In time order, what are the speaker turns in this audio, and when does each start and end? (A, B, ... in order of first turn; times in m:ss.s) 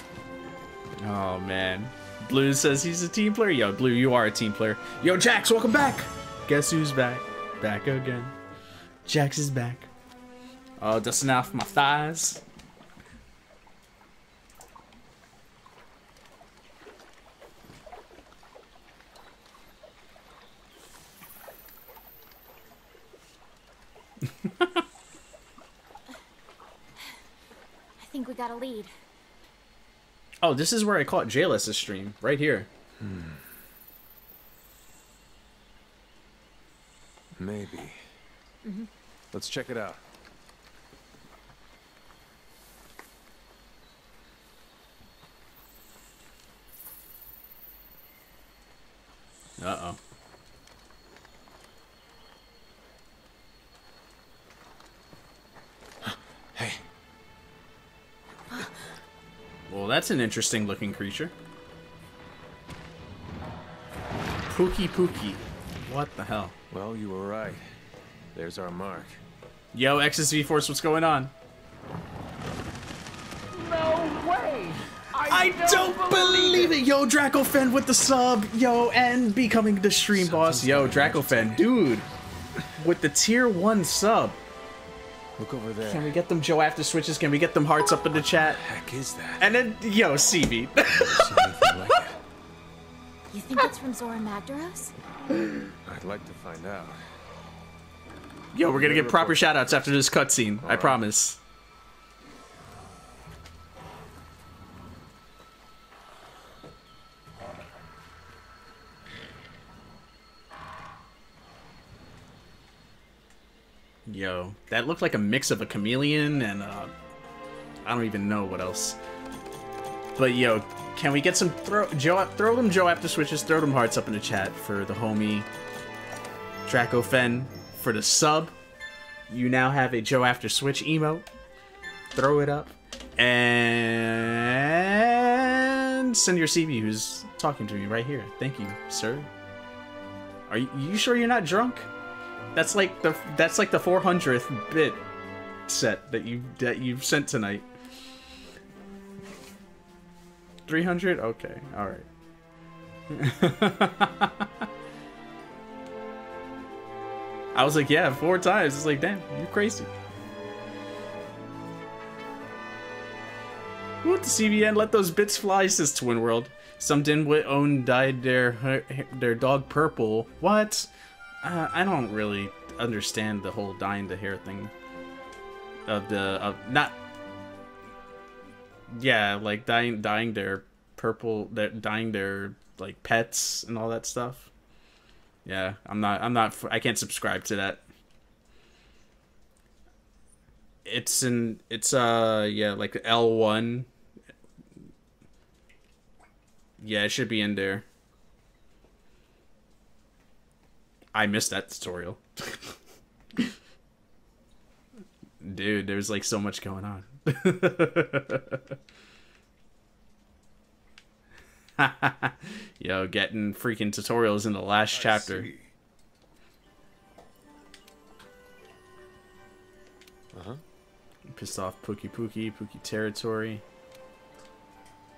0:01.0-0:08.3 A
0:09.0-0:09.9 A
0:10.8-0:12.4 A
0:24.2-0:24.8 A
0:28.0-0:28.9 B
0:30.4-0:32.7 A
0:33.0-0:33.4 C
0:37.3-0:38.0 C
0:38.6-0:38.9 B
0:39.3-0:40.0 C
0:49.6-0:50.0 A
0:56.0-0:56.8 C
0:59.7-1:01.3 A
1:04.5-1:06.5 A
1:06.7-1:07.7 C
1:08.3-1:09.2 C
1:09.7-1:11.3 A
1:13.5-1:16.8 D
1:15.3-1:22.1 A
1:20.1-1:21.7 C
1:22.8-1:24.4 A
1:25.4-1:26.1 C
1:25.8-1:28.6 A
1:28.3-1:29.5 C
1:29.4-1:32.0 A
1:30.9-1:32.2 C
1:33.3-1:34.9 B
1:35.8-1:37.0 C
1:38.5-1:41.4 A
1:38.7-1:39.7 C
1:40.6-1:41.0 C
1:54.0-1:56.9 A
1:57.8-1:59.0 A
2:00.2-2:05.5 A
2:06.6-2:08.5 A
2:09.3-2:11.2 A
2:12.1-2:19.3 A
2:20.5-2:21.9 A
2:22.5-2:25.0 A
2:25.7-2:27.7 A
2:30.6-2:32.1 A
2:33.1-2:34.5 A
2:37.5-2:39.9 A
2:44.0-2:50.9 A
2:51.4-2:54.7 A
2:55.9-2:57.0 A
2:58.9-3:04.5 A
3:05.4-3:07.8 A
3:10.8-3:13.9 A
3:16.8-3:17.8 A
3:21.1-3:22.7 A
3:25.4-3:28.7 A
3:31.8-3:35.5 A
3:34.9-3:35.7 C
3:40.3-3:40.6 C
3:41.3-3:43.6 A